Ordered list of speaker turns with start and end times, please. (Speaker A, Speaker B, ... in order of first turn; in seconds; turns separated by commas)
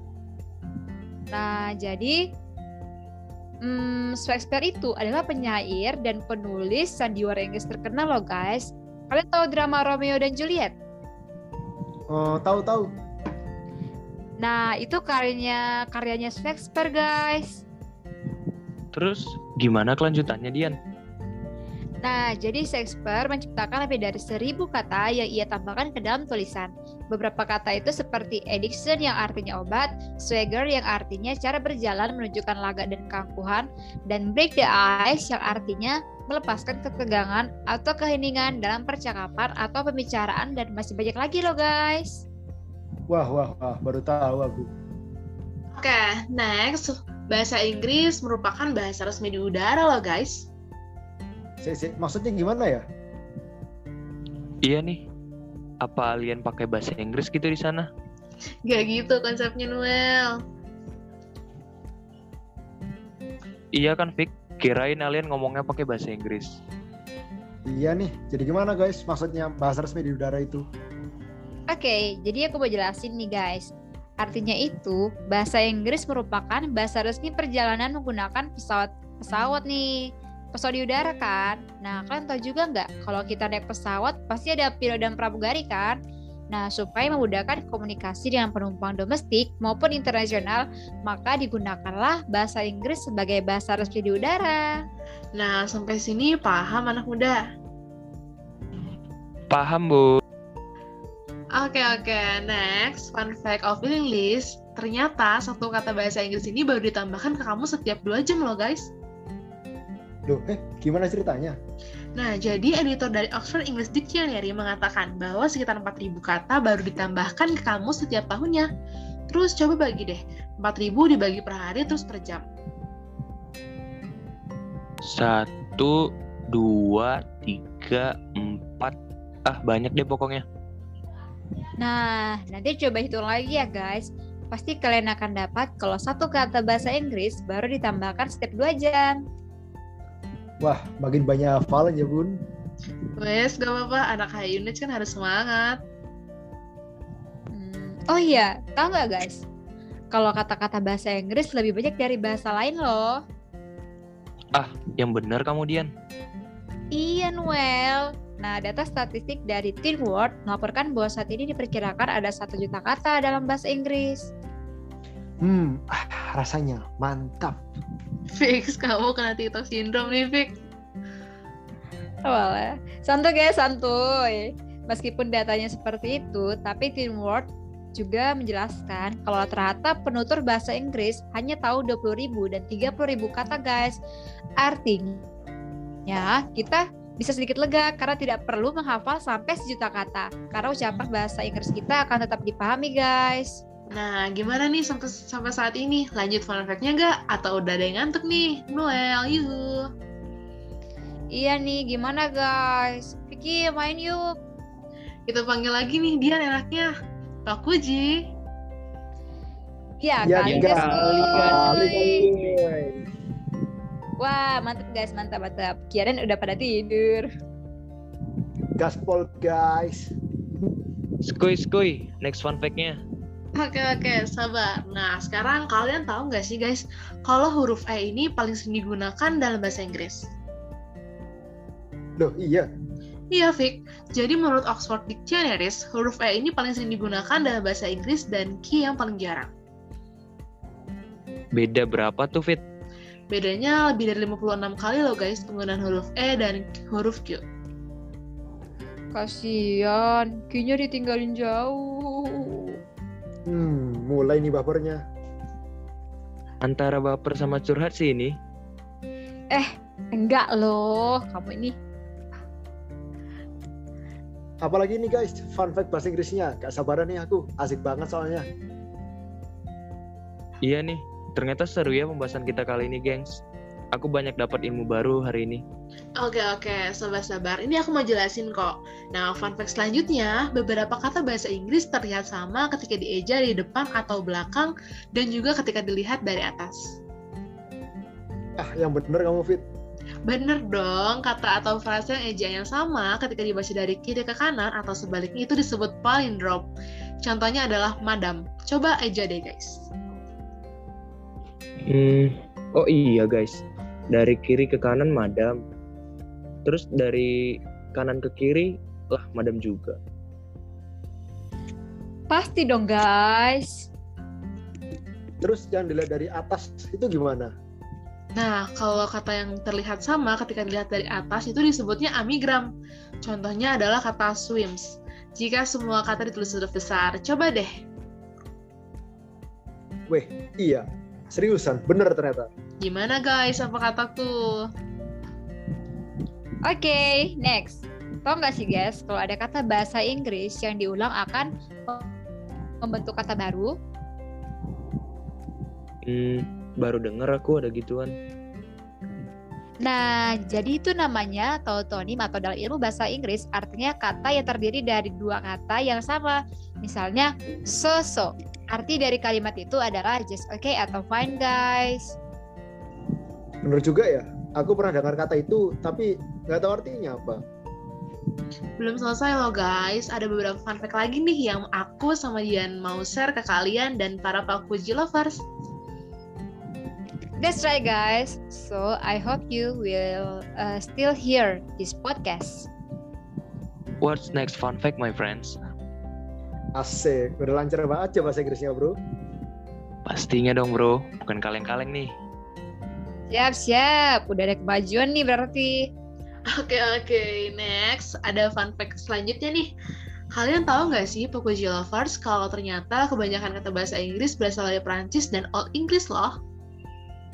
Speaker A: 1.3-2.2, Speaker A: 3.6-10.7, Speaker B: 12.1-12.9, Speaker A: 14.4-17.6, Speaker C: 18.9-20.7, Speaker A: 22.0-42.2, Speaker B: 43.1-44.7, Speaker D: 45.7-50.5, Speaker B: 51.6-52.8, Speaker C: 54.6-55.0, Speaker C: 55.8-57.9, Speaker D: 58.6-60.3, Speaker C: 63.7-66.6, Speaker B: 67.7-70.6, Speaker A: 71.7-86.0, Speaker A: 86.5-94.8, Speaker D: 95.3-97.4, Speaker C: 99.5-100.2, Speaker D: 101.5-108.9, Speaker B: 110.3-111.6, Speaker D: 112.2-118.7, Speaker D: 119.3-122.4, Speaker C: 125.0-126.0, Speaker C: 126.5-128.9, Speaker C: 129.5-130.4, Speaker A: 131.8-139.2, Speaker B: 140.6-142.4, Speaker D: 143.2-145.8, Speaker A: 147.5-149.4, Speaker A: 150.1-153.2, Speaker C: 154.5-155.9, Speaker A: 156.9-164.3, Speaker B: 165.4-167.6, Speaker D: 168.3-170.5, Speaker A: 172.2-183.9, Speaker A: 184.6-185.3, Speaker A: 186.1-193.6, Speaker D: 193.9-199.8, Speaker A: 201.3-204.3, Speaker D: 205.3-206.9, Speaker D: 207.4-208.2, Speaker A: 210.0-212.2, Speaker B: 210.2-213.1, Speaker C: 210.4-212.6, Speaker A: 214.2-217.3, Speaker B: 218.8-220.1, Speaker C: 221.2-223.0, Speaker D: 223.5-230.3, Speaker B: 232.2-232.7, Speaker D: 233.3-239.5, Speaker C: 241.5-242.6, Speaker D: 243.3-247.4, Speaker A: 249.1-252.8, Speaker B: 253.5-255.0, Speaker C: 256.6-258.3, Speaker A: 259.5-261.8, Speaker B: 264.6-268.4, Speaker C: 270.6-273.4, Speaker C: 273.9-275.6, Speaker D: 276.2-286.9, Speaker B: 288.6-289.6, Speaker D: 290.3-296.7, Speaker D: 297.2-299.9, Speaker C: 301.9-305.6, Speaker C: 306.6-307.3, Speaker C: 307.9-310.0, Speaker A: 312.3-313.9, Speaker B: 315.4-317.5, Speaker D: 318.4-322.7, Speaker D: 323.2-327.7, Speaker B: 330.1-332.5, Speaker D: 332.8-334.6, Speaker A: 336.6-342.1, Speaker A: 342.8-343.7, Speaker C: 346.0-348.1, Speaker A: 349.8-362.1, Speaker B: 363.6-367.4, Speaker D: 368.8-375.4, Speaker A: 377.4-382.7, Speaker C: 384.0-385.6, Speaker B: 386.8-389.0, Speaker C: 390.1-392.1, Speaker A: 393.3-395.9, Speaker D: 396.5-399.7, Speaker D: 400.3-406.3